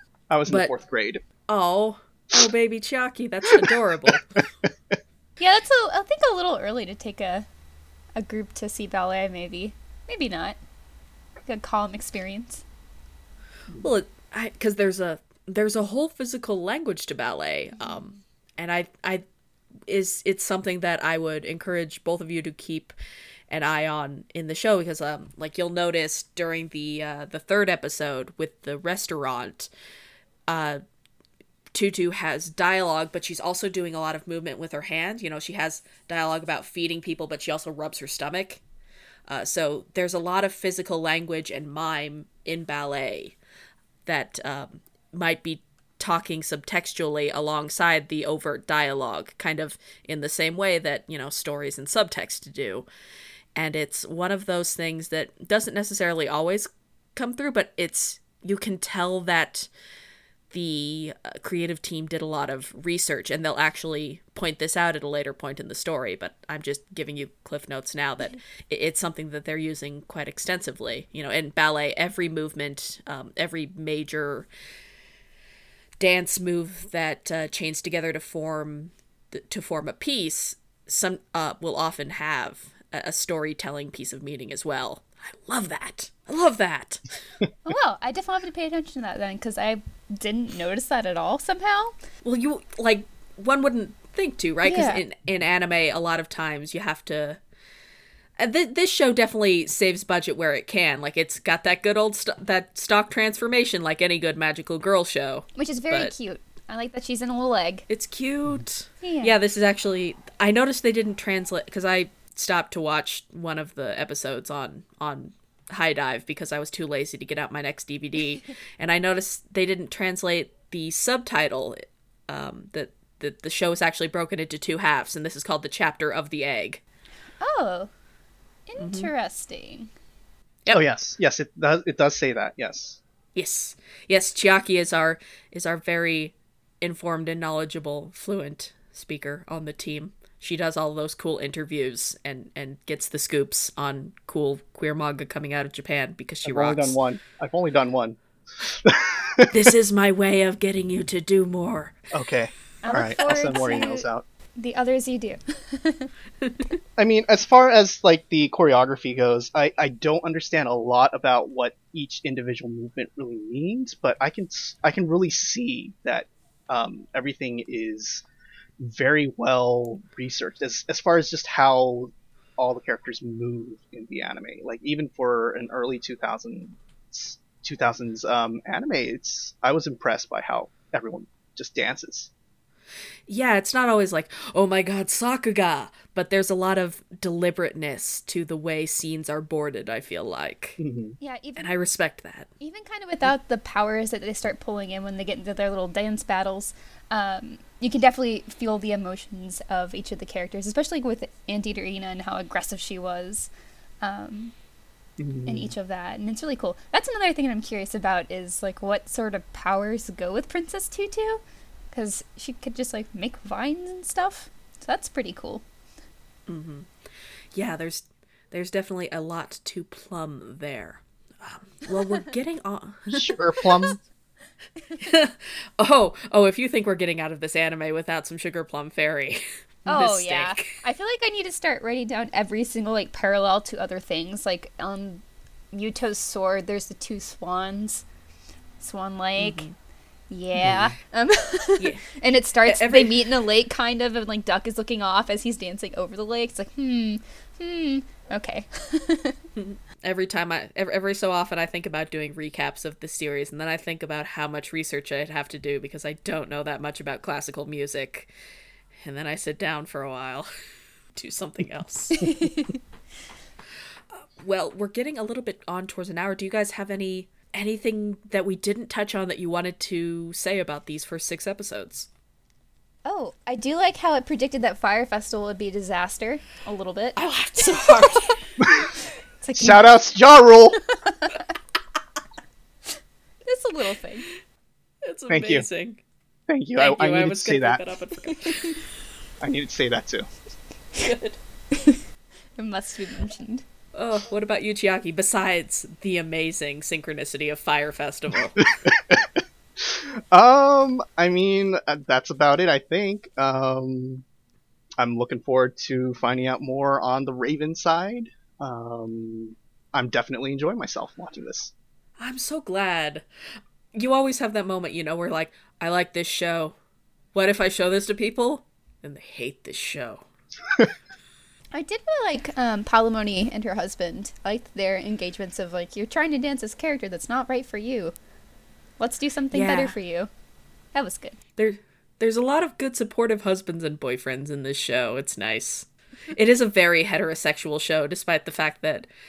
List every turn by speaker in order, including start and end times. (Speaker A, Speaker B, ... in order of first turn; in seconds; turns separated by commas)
Speaker A: 0.3-1.2, Speaker B: 1.5-4.4, Speaker A: 3.5-5.0, Speaker C: 5.4-7.5, Speaker C: 8.2-10.6, Speaker C: 11.4-12.6, Speaker B: 13.8-19.2, Speaker B: 19.9-22.9, Speaker B: 23.5-29.7, Speaker B: 30.5-30.8, Speaker B: 31.7-38.6, Speaker B: 39.3-43.4, Speaker B: 44.0-52.9, Speaker B: 53.5-59.7, Speaker B: 60.5-74.5, Speaker B: 76.0-87.2, Speaker C: 87.7-91.9, Speaker B: 92.2-97.4, Speaker C: 94.6-95.0, Speaker B: 98.4-106.1, Speaker C: 105.5-107.8, Speaker B: 107.9-126.8, Speaker C: 109.0-109.3, Speaker C: 127.4-127.9, Speaker C: 128.7-129.9, Speaker B: 128.8-129.1, Speaker A: 130.7-133.0, Speaker B: 133.3-147.0, Speaker A: 146.4-149.7, Speaker B: 149.5-151.9, Speaker A: 152.1-154.2, Speaker C: 152.8-156.1, Speaker A: 157.0-168.2, Speaker A: 168.8-182.3, Speaker B: 183.3-190.8, Speaker A: 190.8-191.2, Speaker C: 191.2-191.8, Speaker B: 191.6-192.5, Speaker C: 192.6-203.5, Speaker C: 204.0-204.5, Speaker A: 205.2-205.7, Speaker C: 205.4-211.4, Speaker C: 211.9-215.6, Speaker B: 216.5-216.9, Speaker B: 217.5-223.3, Speaker A: 223.1-224.0, Speaker C: 224.8-225.1, Speaker B: 225.0-230.7, Speaker C: 229.9-238.0, Speaker C: 238.8-239.7, Speaker B: 239.4-239.7, Speaker C: 240.3-249.4, Speaker A: 240.6-240.9, Speaker B: 241.8-243.3, Speaker B: 249.6-258.3, Speaker B: 259.0-260.5, Speaker B: 261.1-262.4, Speaker C: 262.1-262.8, Speaker B: 264.1-272.1, Speaker C: 273.1-278.9, Speaker B: 277.1-278.5, Speaker C: 279.4-279.8, Speaker A: 279.6-280.8, Speaker C: 280.9-281.4, Speaker C: 283.4-284.3, Speaker B: 285.1-286.0, Speaker A: 285.3-285.7, Speaker A: 286.5-287.8, Speaker B: 286.8-288.8, Speaker C: 288.4-288.7, Speaker A: 289.4-290.3, Speaker B: 290.9-291.4, Speaker C: 291.7-292.0, Speaker C: 292.6-293.6, Speaker B: 293.9-298.7, Speaker A: 298.8-304.2, Speaker A: 305.0-311.7, Speaker B: 312.2-313.2, Speaker B: 313.9-316.8, Speaker B: 317.3-320.2, Speaker C: 321.7-328.1, Speaker C: 329.0-330.3, Speaker B: 329.5-329.9, Speaker C: 330.9-331.4, Speaker B: 331.6-339.1